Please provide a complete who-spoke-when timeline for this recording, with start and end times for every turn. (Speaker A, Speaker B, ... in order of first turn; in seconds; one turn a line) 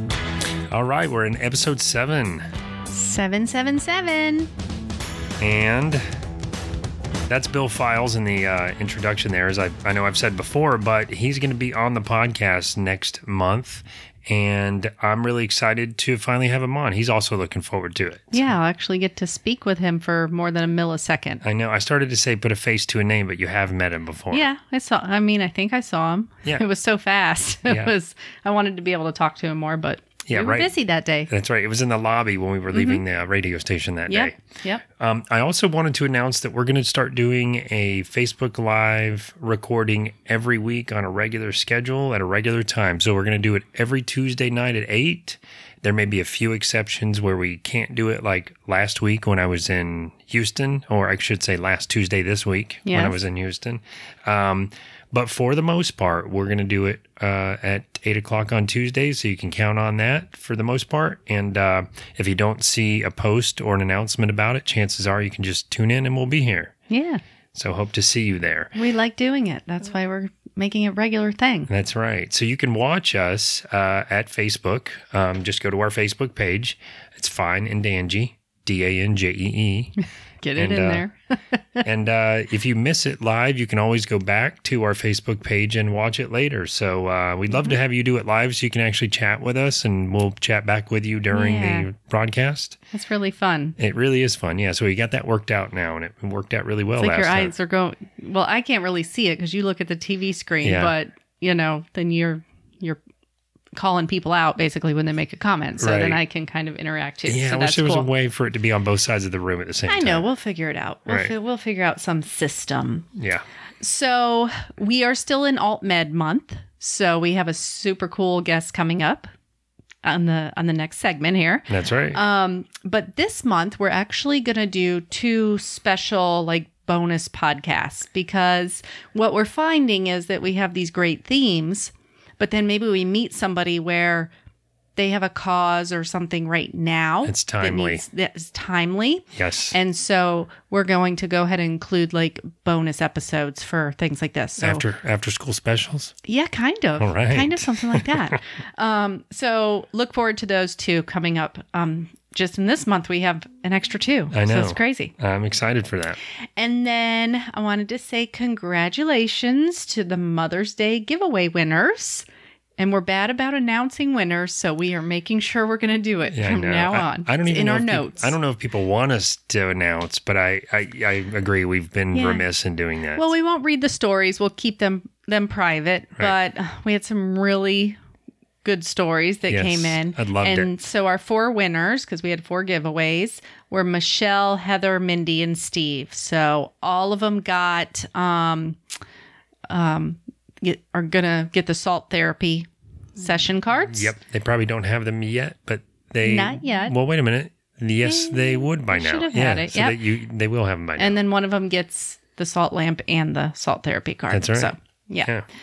Speaker A: 0.7-2.4
Speaker B: 2.9-4.5
Speaker A: 5.4-6.0
Speaker A: 7.3-18.5
Speaker B: 18.3-21.4
Speaker A: 21.4-24.5
Speaker B: 24.3-31.3
Speaker A: 27.7-27.9
Speaker A: 30.3-30.7
Speaker A: 31.3-34.4
Speaker B: 32.7-33.0
Speaker B: 34.1-34.8
Speaker A: 35.0-66.8
Speaker B: 52.9-53.2
Speaker B: 66.9-67.2
Speaker A: 67.5-68.7
Speaker B: 68.8-71.7
Speaker A: 71.7-80.0
Speaker B: 80.4-81.8
Speaker A: 80.6-81.0
Speaker A: 81.8-92.8
Speaker B: 91.3-91.9
Speaker B: 92.9-93.8
Speaker A: 93.8-97.5
Speaker B: 97.0-103.0
Speaker A: 100.6-100.9
Speaker B: 103.8-108.1
Speaker A: 105.8-106.2
Speaker A: 107.3-110.2
Speaker B: 109.9-113.1
Speaker A: 111.1-111.3
Speaker A: 113.2-113.4
Speaker B: 113.8-119.3
Speaker B: 120.0-134.3
Speaker A: 121.7-122.2
Speaker B: 135.0-144.8
Speaker A: 137.2-138.0
Speaker A: 139.4-139.8
Speaker A: 144.6-146.1
Speaker B: 146.2-155.1
Speaker A: 147.0-148.1
Speaker A: 154.3-156.2
Speaker B: 156.6-162.2
Speaker B: 162.8-168.3
Speaker A: 166.3-173.3
Speaker B: 172.1-172.4
Speaker B: 173.2-178.0
Speaker B: 178.6-188.8
Speaker A: 179.5-180.7
Speaker B: 189.7-194.1
Speaker A: 193.9-201.2
Speaker B: 196.2-197.0
Speaker B: 198.0-200.0
Speaker B: 201.0-205.3
Speaker A: 204.3-204.7